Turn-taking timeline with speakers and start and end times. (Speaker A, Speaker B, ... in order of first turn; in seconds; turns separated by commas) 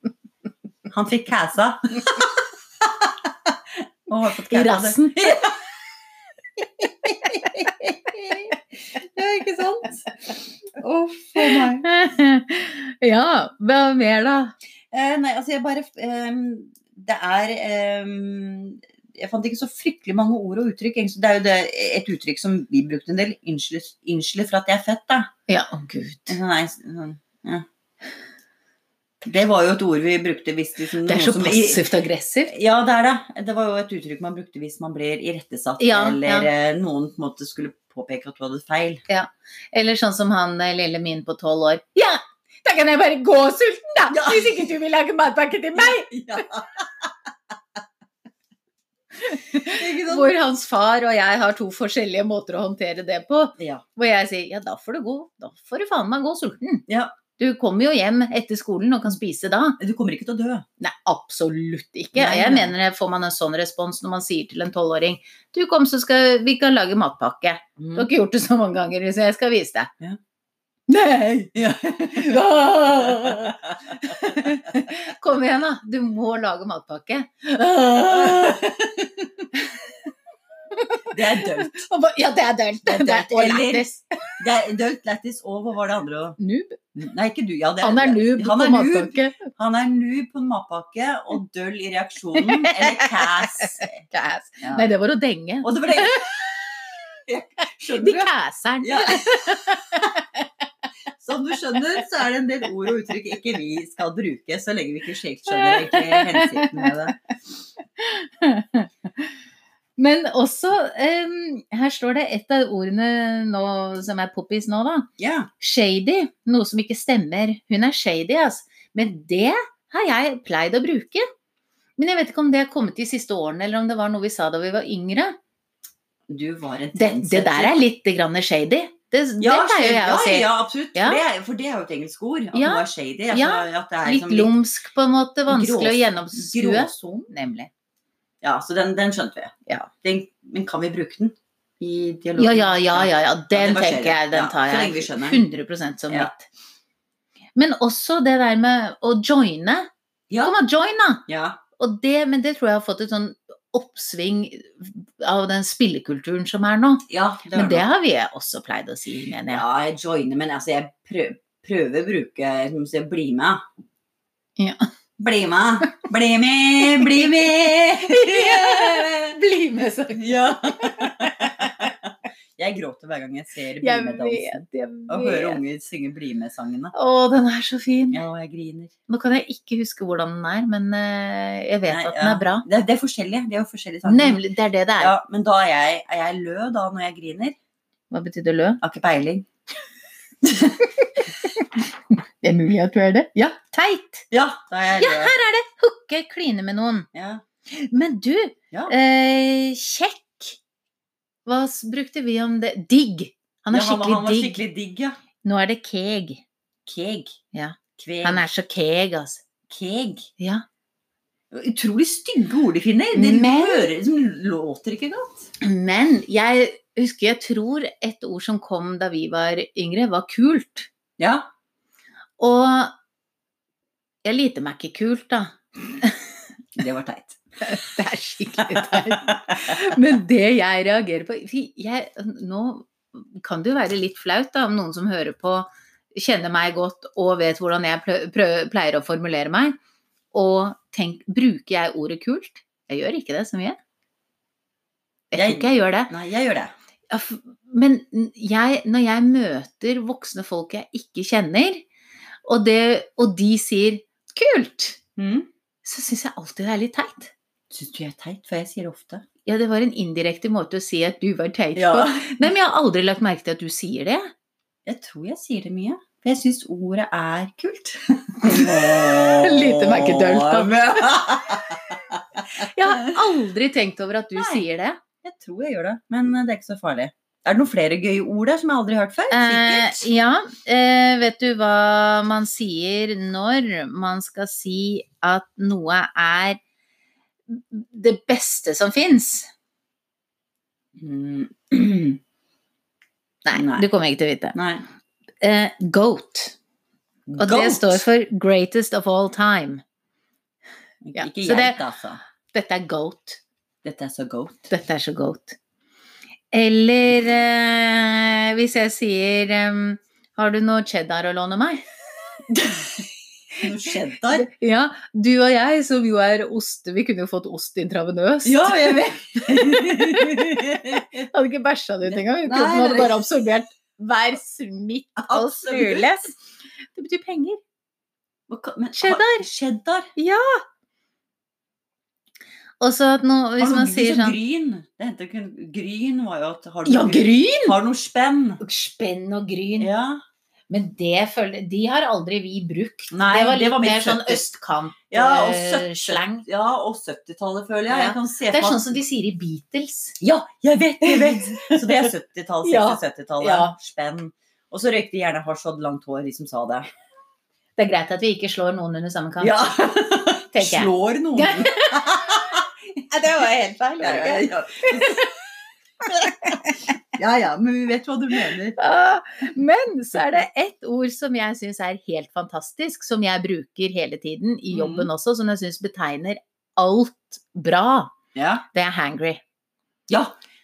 Speaker A: 0.9-5.6, Speaker B: 4.5-5.4, Speaker A: 6.6-10.1, Speaker A: 10.7-11.9, Speaker B: 11.4-14.5, Speaker A: 14.9-25.3, Speaker B: 25.5-26.4, Speaker A: 26.3-27.7, Speaker A: 29.2-31.8, Speaker B: 31.0-32.5, Speaker A: 32.5-39.0, Speaker B: 35.8-36.5, Speaker B: 39.1-46.5, Speaker A: 44.1-44.7, Speaker A: 45.8-47.1, Speaker B: 49.2-56.9, Speaker A: 49.6-50.3, Speaker A: 56.9-57.2, Speaker B: 57.4-59.8, Speaker A: 59.8-60.7, Speaker B: 60.8-69.9, Speaker A: 62.1-62.8, Speaker A: 67.8-68.1, Speaker B: 70.9-78.8, Speaker A: 71.5-72.4, Speaker A: 73.0-74.6, Speaker A: 78.1-79.4, Speaker B: 79.5-79.9, Speaker B: 80.7-84.4, Speaker A: 81.1-81.9, Speaker A: 82.8-83.9, Speaker A: 84.4-86.4, Speaker B: 86.4-86.8, Speaker A: 87.0-94.0, Speaker B: 87.8-89.5, Speaker B: 92.4-96.3, Speaker A: 94.6-94.9, Speaker A: 95.6-98.3, Speaker B: 97.6-100.4, Speaker A: 98.8-100.1, Speaker A: 101.2-107.2, Speaker B: 105.5-106.9, Speaker B: 108.0-109.3, Speaker B: 110.0-115.1, Speaker A: 115.2-115.5, Speaker B: 115.6-121.2, Speaker B: 122.0-125.4, Speaker A: 126.3-127.8, Speaker B: 127.0-131.2, Speaker A: 129.4-134.5, Speaker B: 132.5-137.7, Speaker A: 135.5-137.3, Speaker A: 138.4-145.4, Speaker B: 142.4-146.5, Speaker B: 147.6-149.9, Speaker B: 150.4-151.2, Speaker A: 151.3-151.6, Speaker B: 151.8-159.6, Speaker A: 157.1-157.8, Speaker A: 159.5-163.7, Speaker B: 164.6-164.9, Speaker A: 165.2-169.4, Speaker B: 167.0-167.3, Speaker B: 168.0-171.9, Speaker A: 170.1-176.9, Speaker B: 173.8-175.6, Speaker B: 176.9-178.2, Speaker A: 178.1-178.9, Speaker B: 179.1-182.7, Speaker A: 181.9-184.4, Speaker B: 184.1-185.1, Speaker A: 185.0-187.6, Speaker B: 188.1-188.8, Speaker A: 188.8-189.5, Speaker A: 190.4-190.8, Speaker B: 190.8-194.3, Speaker A: 194.3-195.3, Speaker B: 195.0-197.1, Speaker A: 197.1-197.4, Speaker B: 197.7-200.6, Speaker B: 201.4-204.6, Speaker A: 203.7-205.2, Speaker B: 205.4-206.4, Speaker A: 206.9-207.4, Speaker B: 207.5-209.4, Speaker A: 208.0-208.5, Speaker A: 209.7-210.3, Speaker B: 210.4-210.6, Speaker A: 211.5-215.5, Speaker B: 213.1-213.9, Speaker B: 215.6-220.9, Speaker A: 221.2-221.5, Speaker B: 222.4-222.9, Speaker B: 224.2-226.3, Speaker A: 226.8-227.4, Speaker B: 227.6-239.8, Speaker A: 228.7-229.9, Speaker B: 240.3-243.8, Speaker B: 245.3-246.1, Speaker A: 245.3-246.7, Speaker B: 247.1-251.8, Speaker B: 252.4-255.0, Speaker A: 255.2-255.5, Speaker B: 255.8-257.3, Speaker A: 257.7-259.2, Speaker B: 259.4-264.3, Speaker A: 261.8-262.4, Speaker A: 264.9-273.3, Speaker B: 268.4-270.8, Speaker B: 272.5-275.0, Speaker A: 274.4-274.6, Speaker A: 275.2-280.1, Speaker B: 279.3-286.6, Speaker B: 287.5-289.5, Speaker A: 291.0-292.2, Speaker B: 293.4-294.6, Speaker A: 293.5-293.9, Speaker A: 294.6-294.8, Speaker B: 295.4-296.6, Speaker A: 297.3-298.1, Speaker B: 297.4-299.8, Speaker A: 301.0-302.2, Speaker B: 301.2-301.8, Speaker B: 302.5-303.4, Speaker A: 303.8-304.7, Speaker B: 304.7-305.6, Speaker B: 306.5-311.8, Speaker A: 312.5-314.5, Speaker B: 314.3-326.4, Speaker A: 318.4-321.3, Speaker A: 322.0-323.2, Speaker A: 325.2-326.1, Speaker B: 326.9-327.6, Speaker A: 328.5-330.1, Speaker B: 329.0-329.5, Speaker B: 330.2-330.6, Speaker B: 332.8-334.4, Speaker A: 333.6-338.6, Speaker B: 336.9-337.8, Speaker B: 338.6-339.9, Speaker A: 339.8-340.2, Speaker B: 340.7-346.4, Speaker A: 343.1-344.5, Speaker A: 345.1-349.0, Speaker B: 347.9-350.2, Speaker A: 350.2-356.9, Speaker B: 351.0-352.1, Speaker B: 352.6-353.8, Speaker B: 357.8-359.9, Speaker A: 359.4-362.7, Speaker B: 360.5-362.6, Speaker B: 363.1-365.3, Speaker A: 363.5-365.2, Speaker B: 366.1-366.8, Speaker A: 366.2-366.6, Speaker A: 367.1-368.8, Speaker B: 368.8-378.1, Speaker A: 374.7-375.1, Speaker A: 378.4-378.6, Speaker B: 378.7-379.4, Speaker A: 380.1-380.4